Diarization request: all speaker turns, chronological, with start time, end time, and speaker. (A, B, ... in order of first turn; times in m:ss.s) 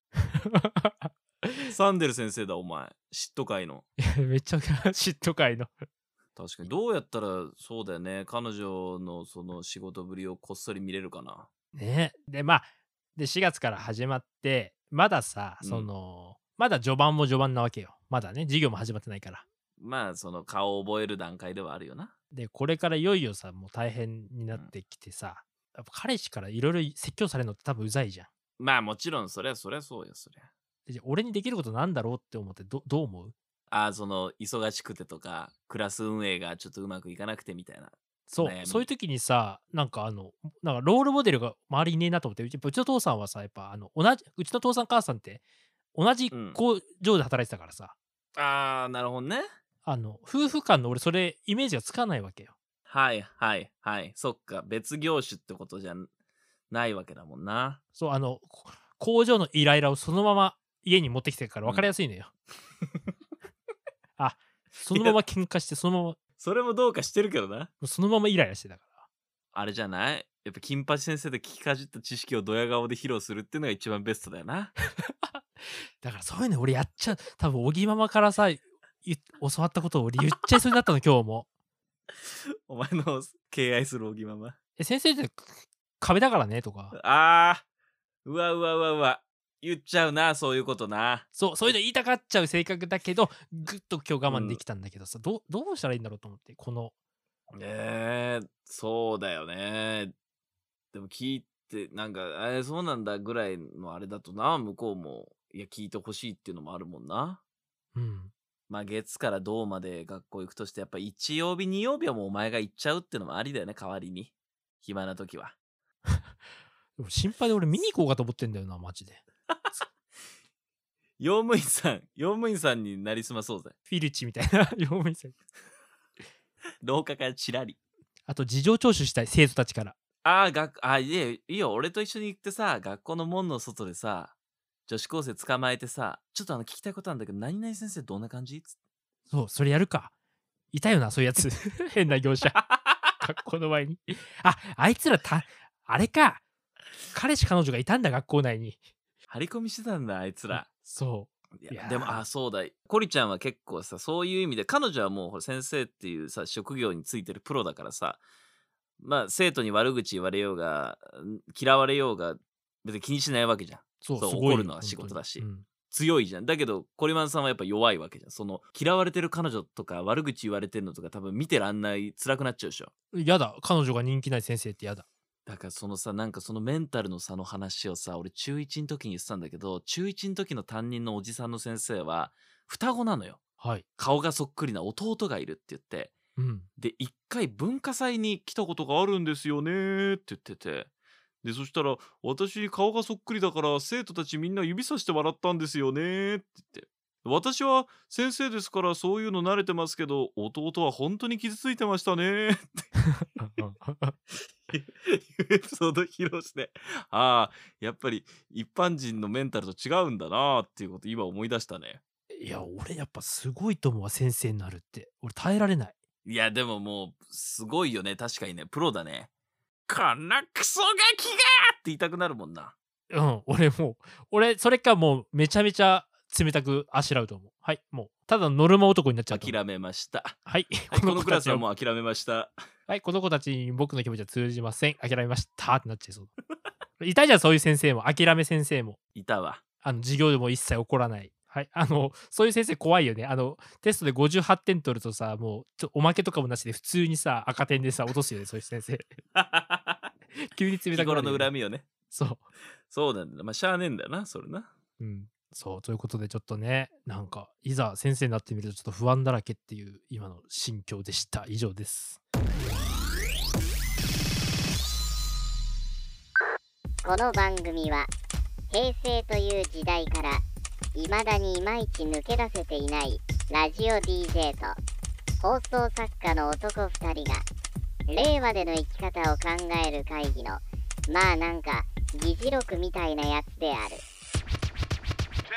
0:00.2-0:01.7 A
0:01.7-0:03.8 B
0:04.0-0:05.7 A
0:06.4-0:11.5 B
0:11.7-0:19.4 A
0:15.6-0:15.9 B
0:19.8-0:22.1 B
0:22.3-0:28.3 A
0:28.6-0:30.5 B
0:30.9-0:33.3 A
0:33.7-0:38.9 B
0:38.3-0:45.4 A
0:46.0-0:48.0 A
0:46.3-0:46.6 B
0:48.4-0:49.5 B
0:49.8-0:52.5 A
0:52.9-0:56.1 B
0:56.7-0:57.8 B
0:58.0-1:02.3 A
1:04.2-1:06.2 A
1:06.4-1:07.7 B
1:07.8-1:09.0 A
1:09.5-1:14.7 B
1:15.0-1:15.4 A
1:16.0-1:21.5 A
1:22.2-1:24.6 B
1:24.8-1:27.0 A
1:26.9-1:27.6 B
1:28.2-1:31.2 B
1:31.4-1:36.9 A
1:34.3-1:34.6 B
1:37.5-1:40.1 B
1:40.9-1:47.4 B
1:48.0-1:48.3 A
1:48.7-1:54.3 B
1:54.8-1:55.5 B
1:57.0-1:59.2 A
2:01.2-2:03.8 B
2:03.9-2:05.4 A
2:06.8-2:07.8 B
2:08.3-2:10.0 A
2:10.2-2:14.3 B
2:14.9-2:18.8 B
2:19.3-2:20.1 A
2:20.7-2:22.6 A
2:22.6-2:23.1 B
2:23.2-2:26.4 A
2:27.1-2:28.8 A
2:29.3-2:30.7 B
2:30.5-2:32.2 A
2:31.6-2:38.2 B
2:39.0-2:52.9 B
2:44.0-2:45.6 A
2:53.1-2:55.1 A
2:55.5-3:03.4 B
3:03.6-3:03.8 A
3:04.0-3:06.1 B
3:06.4-3:06.7 A
3:06.8-3:10.9 B
3:11.4-3:22.9 B
3:23.2-3:24.2 A
3:24.3-3:32.0 B
3:32.3-3:36.0 A
3:36.2-3:39.3 B
3:39.9-3:42.7 B
3:43.1-3:49.6 A
3:49.3-3:50.4 B
3:50.5-3:51.6 A
3:50.9-3:52.6 B
3:52.9-3:56.3 A
3:57.0-3:59.0 A
3:59.2-3:59.6 B
3:59.8-4:09.2 A
4:09.3-4:10.1 B
4:10.4-4:11.5 A
4:10.9-4:11.9 B
4:12.1-4:12.4 A
4:12.9-4:14.7 B
4:15.0-4:22.2 A
4:27.0-4:28.1 C
4:28.7-4:30.4 C
4:31.0-4:34.8 C
4:35.4-4:37.4 C
4:38.1-4:44.0 C